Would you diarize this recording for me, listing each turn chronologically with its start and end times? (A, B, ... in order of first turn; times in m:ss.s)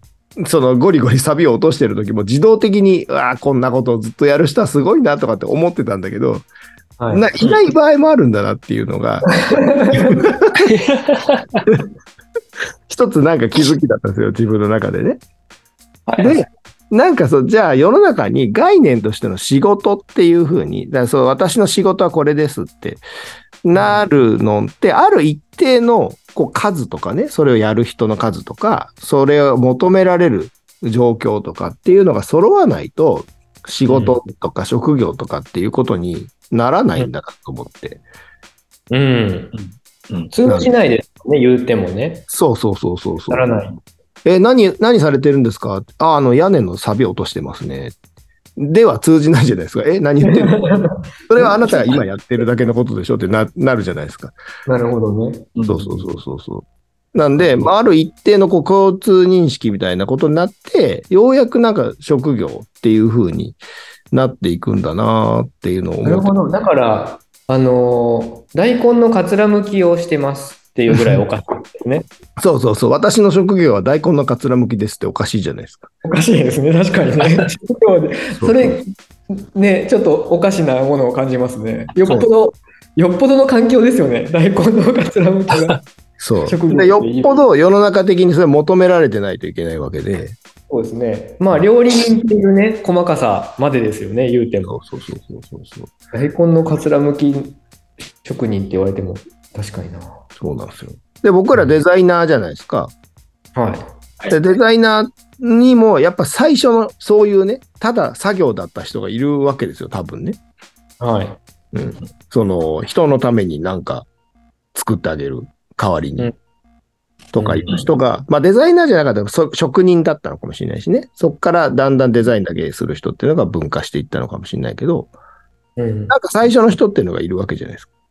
0:00.4-0:06.5 A
0:07.0-0:07.3 B
0:07.1-0:10.5 A
0:09.3-0:10.2 B
0:10.6-0:11.7 C
0:12.9-0:15.2 A
0:16.1-0:16.4 C
0:16.2-0:23.0 A
0:23.6-0:38.0 A
0:23.7-0:24.0 B
0:33.8-0:34.2 B
0:38.9-0:39.5 B
0:40.3-0:42.2 B
0:40.4-0:40.7 A
0:42.3-0:43.5 A
0:43.3-0:43.8 B
0:44.2-0:48.0 A
0:48.6-0:50.7 A
0:50.2-0:52.0 B
0:51.3-0:54.3 A
0:54.6-0:56.0 B
0:55.6-0:55.9 C
0:55.6-1:03.6 A
0:57.4-0:57.7 B
1:04.1-1:06.3 A
1:06.0-1:12.1 B
1:12.4-1:15.9 A
1:16.0-1:25.8 B
1:18.4-1:18.8 A
1:25.5-1:25.8 C
1:26.2-1:30.4 A
1:26.4-1:27.4 B
1:30.7-1:34.8 B
1:34.6-1:35.9 A
1:36.1-1:37.6 B
1:38.2-1:40.2 B
1:40.4-1:42.9 A
1:41.5-1:41.8 B
1:43.5-1:43.9 B
1:44.3-1:50.4 A
1:51.0-1:51.4 B
1:51.7-1:54.1 A
1:54.8-1:56.3 A
1:57.3-2:05.1 A
1:57.4-1:57.7 B
2:05.8-2:06.1 B
2:06.1-2:07.9 A